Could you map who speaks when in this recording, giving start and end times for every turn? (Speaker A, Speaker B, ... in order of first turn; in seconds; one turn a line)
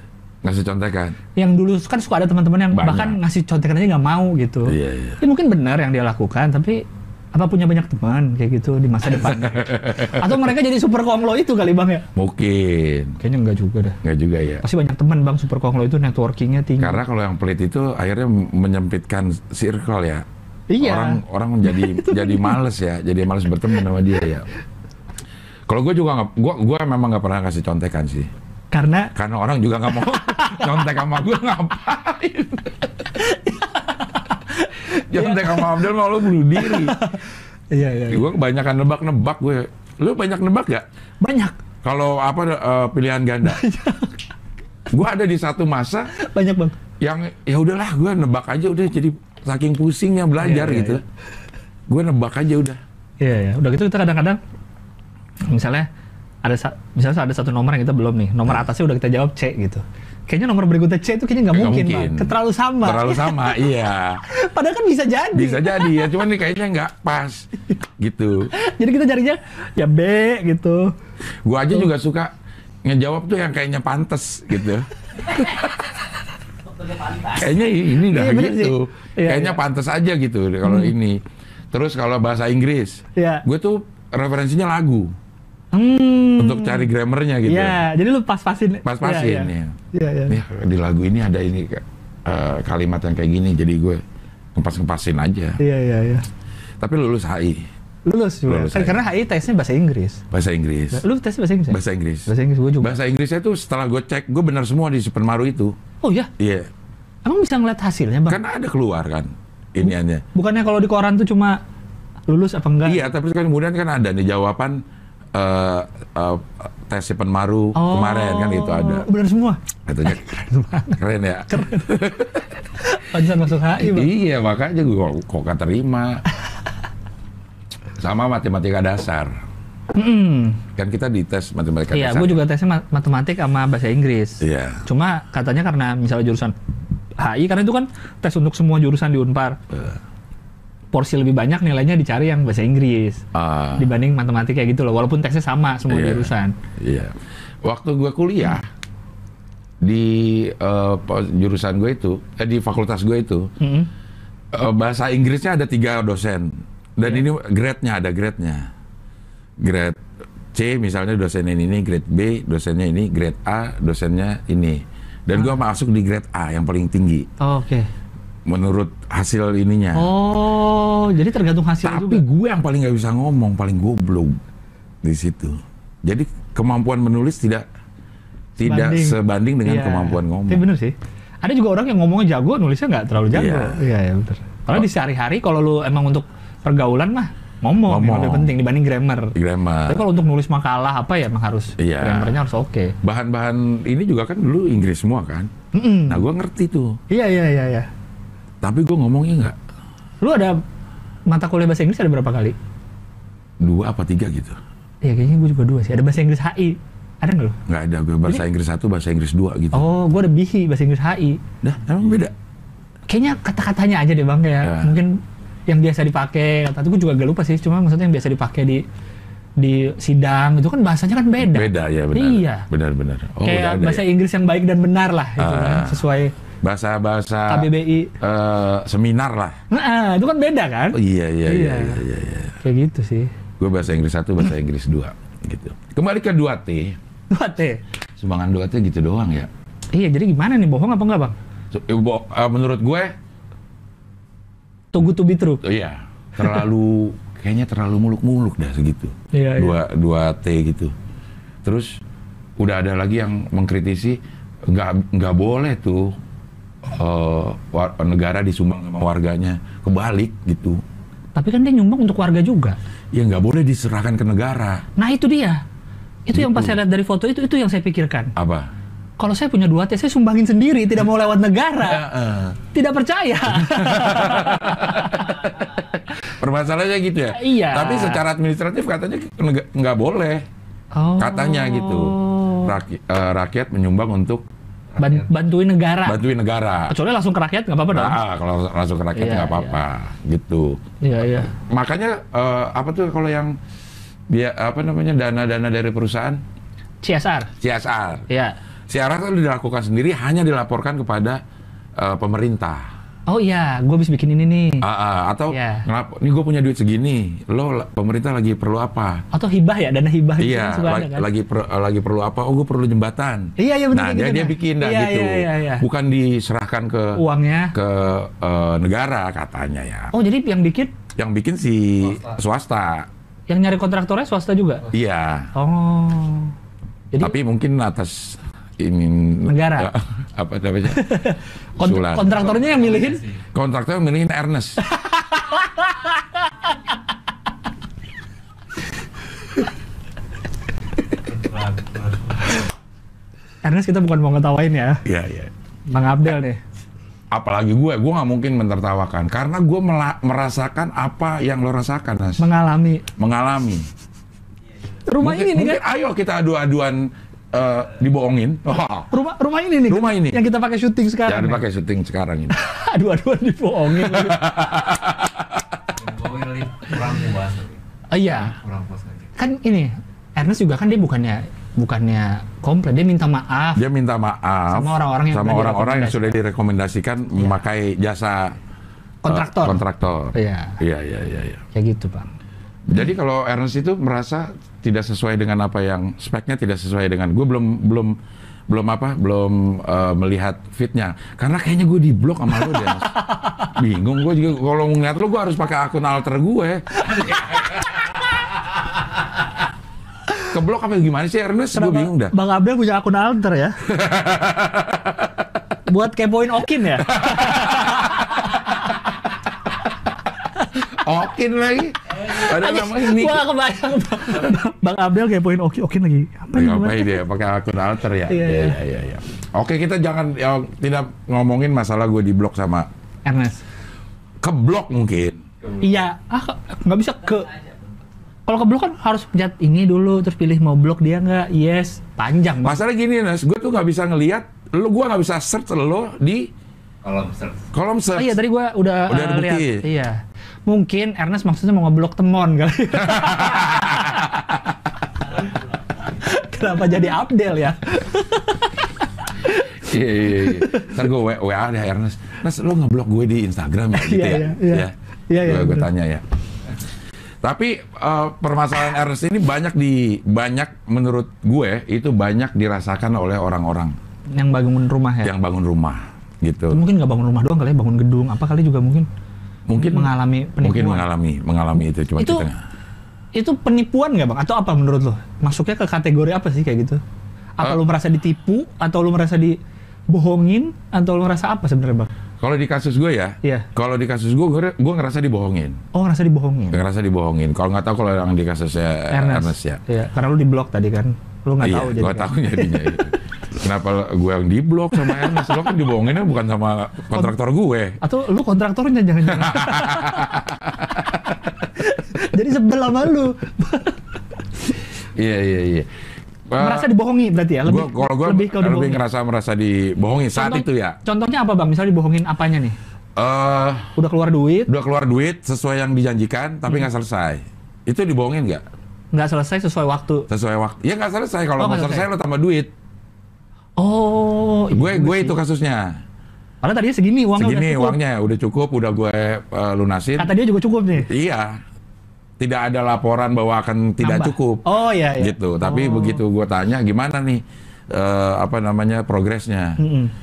Speaker A: 0.4-1.2
Speaker B: 1.4-12.1
Speaker A: 2.7-3.2
Speaker A: 4.7-5.2
Speaker A: 9.1-10.4
Speaker A: 12.2-13.2
Speaker B: 13.2-14.0
Speaker A: 14.0-14.7
Speaker B: 14.6-17.0
Speaker A: 16.8-20.2
Speaker B: 20.7-22.6
Speaker A: 20.8-24.5
Speaker A: 25.7-28.3
Speaker B: 28.7-29.1
Speaker A: 29.1-32.8
Speaker B: 30.0-30.9
Speaker B: 33.1-35.9
Speaker A: 34.8-37.1
Speaker B: 36.5-38.3
Speaker A: 38.1-40.9
Speaker B: 41.2-41.6
Speaker A: 41.8-43.6
Speaker B: 43.4-44.2
Speaker A: 44.9-46.1
Speaker B: 46.1-46.8
Speaker A: 47.0-51.0
Speaker B: 50.4-51.0
Speaker A: 51.9-52.8
Speaker B: 53.2-54.4
Speaker B: 55.5-55.9
Speaker B: 56.4-63.6
Speaker A: 61.5-64.2
Speaker B: 64.2-66.2
Speaker A: 65.3-68.5
Speaker B: 68.5-70.9
Speaker A: 71.4-72.3
Speaker A: 72.8-75.9
Speaker A: 77.1-81.2
Speaker B: 78.0-79.6
Speaker B: 80.6-80.9
Speaker A: 81.7-85.1
Speaker B: 83.2-83.4
Speaker B: 85.7-86.9
Speaker A: 86.4-87.8
Speaker B: 87.5-90.4
Speaker A: 88.8-89.8
Speaker A: 90.3-94.0
Speaker A: 94.5-95.6
Speaker B: 95.6-96.3
Speaker A: 96.8-97.7
Speaker B: 98.1-100.2
Speaker A: 98.5-99.0
Speaker A: 100.3-101.0
Speaker B: 100.9-103.0
Speaker A: 101.7-105.8
Speaker B: 106.0-106.3
Speaker A: 106.4-106.7
Speaker B: 107.2-108.4
Speaker A: 108.3-110.2
Speaker B: 110.3-111.6
Speaker B: 112.3-113.1
Speaker A: 112.8-114.8
Speaker A: 115.3-119.1
Speaker B: 117.8-121.0
Speaker A: 119.9-122.5
Speaker B: 121.5-121.9
Speaker B: 122.8-124.1
Speaker A: 123.8-126.2
Speaker A: 128.0-129.4
Speaker B: 129.9-130.6
Speaker A: 130.8-132.4
Speaker B: 131.9-136.6
Speaker A: 134.4-134.8
Speaker B: 137.2-139.6
Speaker A: 139.7-140.0
Speaker B: 140.9-143.2
Speaker A: 143.3-143.9
Speaker B: 143.8-146.6
Speaker A: 145.9-148.7
Speaker A: 149.8-153.5
Speaker B: 153.6-153.9
Speaker A: 154.5-158.7
Speaker A: 159.6-160.0
Speaker A: 160.5-167.3
Speaker B: 167.4-167.9
Speaker A: 168.5-170.1
Speaker B: 169.9-172.2
Speaker A: 171.8-174.4
Speaker A: 175.0-177.7
Speaker A: 178.6-180.7
Speaker B: 178.6-189.3
Speaker A: 183.3-183.8
Speaker A: 187.8-188.5
Speaker A: 189.3-190.0
Speaker B: 189.9-192.9
Speaker A: 191.8-192.4
Speaker A: 193.0-195.5
Speaker B: 195.7-196.2
Speaker A: 196.1-197.0
Speaker B: 197.1-197.9
Speaker A: 198.6-199.6
Speaker B: 200.2-200.6
Speaker B: 201.3-202.6
Speaker A: 203.6-204.6
Speaker B: 205.0-207.6
Speaker A: 207.7-209.8
Speaker B: 209.7-211.4
Speaker A: 211.6-212.3
Speaker B: 213.1-218.8
Speaker A: 214.6-214.9
Speaker B: 219.6-222.7
Speaker A: 221.4-224.0
Speaker B: 223.4-226.3
Speaker A: 225.4-226.0
Speaker A: 226.6-229.6
Speaker B: 227.5-228.1
Speaker B: 229.7-232.0
Speaker A: 230.9-232.6
Speaker B: 232.6-233.3
Speaker A: 233.6-237.0
Speaker B: 237.3-237.8
Speaker A: 238.2-239.5
Speaker B: 239.9-241.4
Speaker A: 241.7-243.1
Speaker B: 244.9-245.6
Speaker A: 245.6-250.9
Speaker B: 249.3-249.8
Speaker A: 251.6-252.0
Speaker A: 252.6-256.2
Speaker A: 256.9-260.8
Speaker B: 261.4-262.8
Speaker A: 263.1-264.9
Speaker B: 265.0-265.6
Speaker B: 266.3-268.3
Speaker A: 266.3-266.8
Speaker A: 268.4-268.7
Speaker B: 269.2-272.1
Speaker A: 271.8-272.6
Speaker B: 272.7-275.5
Speaker A: 273.6-280.4
Speaker B: 277.3-278.2
Speaker B: 280.9-282.8
Speaker A: 281.2-284.5
Speaker C: 284.9-285.2
Speaker B: 285.0-286.2
Speaker A: 286.1-286.9
Speaker B: 286.9-288.2
Speaker A: 287.9-290.8
Speaker B: 289.1-289.8
Speaker B: 291.0-291.5
Speaker A: 291.6-293.6
Speaker A: 294.3-296.4
Speaker B: 297.0-297.5
Speaker A: 297.6-298.3
Speaker B: 298.3-298.6
Speaker A: 298.9-301.4
Speaker A: 302.0-302.9
Speaker B: 303.3-304.8
Speaker A: 304.8-309.2
Speaker B: 305.5-305.9
Speaker B: 309.3-311.3
Speaker A: 310.4-317.2
Speaker B: 313.6-315.8
Speaker B: 317.1-317.8
Speaker A: 317.7-320.1
Speaker B: 320.1-320.9
Speaker A: 321.2-323.1
Speaker C: 322.1-322.4
Speaker B: 323.5-324.9
Speaker A: 324.9-325.5
Speaker B: 325.6-326.6
Speaker A: 327.2-331.1
Speaker B: 329.5-329.9
Speaker B: 330.9-333.2
Speaker A: 331.8-332.4
Speaker C: 332.6-333.4
Speaker A: 333.5-334.9
Speaker B: 334.9-336.7
Speaker C: 341.2-342.6
Speaker B: 343.6-345.0
Speaker A: 345.1-345.5
Speaker B: 345.9-346.6
Speaker A: 347.3-352.5
Speaker B: 352.4-353.1
Speaker A: 353.2-353.9
Speaker B: 355.1-355.8
Speaker A: 355.2-359.1
Speaker B: 359.1-361.6
Speaker A: 359.9-360.4
Speaker A: 361.3-362.6
Speaker B: 362.5-364.6
Speaker A: 364.0-365.7
Speaker C: 366.0-367.8
Speaker B: 368.1-368.6
Speaker C: 368.4-369.3
Speaker B: 369.4-373.8
Speaker A: 373.8-378.6
Speaker B: 374.7-376.4
Speaker B: 379.2-379.8
Speaker A: 379.3-381.6
Speaker B: 380.4-380.8
Speaker B: 381.7-382.3
Speaker A: 382.9-388.2
Speaker A: 388.7-397.0
Speaker B: 392.9-393.5
Speaker B: 397.0-397.9
Speaker A: 400.4-402.3
Speaker B: 401.7-403.8
Speaker A: 403.9-405.4
Speaker B: 405.9-408.3
Speaker A: 407.1-408.1
Speaker A: 410.8-413.4
Speaker B: 412.2-417.2
Speaker A: 416.6-422.9
Speaker B: 418.3-418.8
Speaker B: 423.3-423.6
Speaker A: 424.4-425.4
Speaker B: 425.8-427.5
Speaker B: 428.5-432.8
Speaker A: 432.6-436.5
Speaker C: 437.0-437.7
Speaker A: 437.7-438.4
Speaker B: 438.2-444.2
Speaker A: 439.1-439.9
Speaker A: 443.0-444.6
Speaker B: 446.1-448.8
Speaker B: 449.4-449.7
Speaker A: 449.7-456.2
Speaker B: 450.3-451.0
Speaker B: 453.9-455.9
Speaker A: 457.4-463.9
Speaker B: 464.3-465.3
Speaker A: 465.2-466.8
Speaker B: 466.7-469.1
Speaker A: 469.7-472.6
Speaker B: 469.8-471.1
Speaker B: 472.2-472.5
Speaker B: 473.3-477.0
Speaker B: 477.6-479.6
Speaker B: 480.1-482.1
Speaker A: 482.4-485.8
Speaker B: 483.4-483.7
Speaker B: 485.9-486.8
Speaker A: 486.7-489.8
Speaker B: 489.1-493.0
Speaker A: 491.6-498.0
Speaker B: 495.0-495.6
Speaker B: 498.0-500.4
Speaker A: 499.3-501.4
Speaker B: 501.6-504.1
Speaker A: 505.2-505.9
Speaker A: 506.5-506.9
Speaker B: 506.6-509.0
Speaker A: 507.7-511.0
Speaker B: 510.4-512.8
Speaker A: 513.2-514.0
Speaker B: 514.0-514.7
Speaker A: 514.7-518.6
Speaker B: 519.1-520.3
Speaker A: 520.3-522.7
Speaker B: 521.6-522.1
Speaker B: 523.8-525.4
Speaker A: 524.7-526.0
Speaker B: 526.6-528.0
Speaker A: 527.4-530.3
Speaker B: 530.2-531.1
Speaker A: 531.0-531.6
Speaker A: 532.4-539.8
Speaker B: 534.0-536.2
Speaker B: 539.8-540.1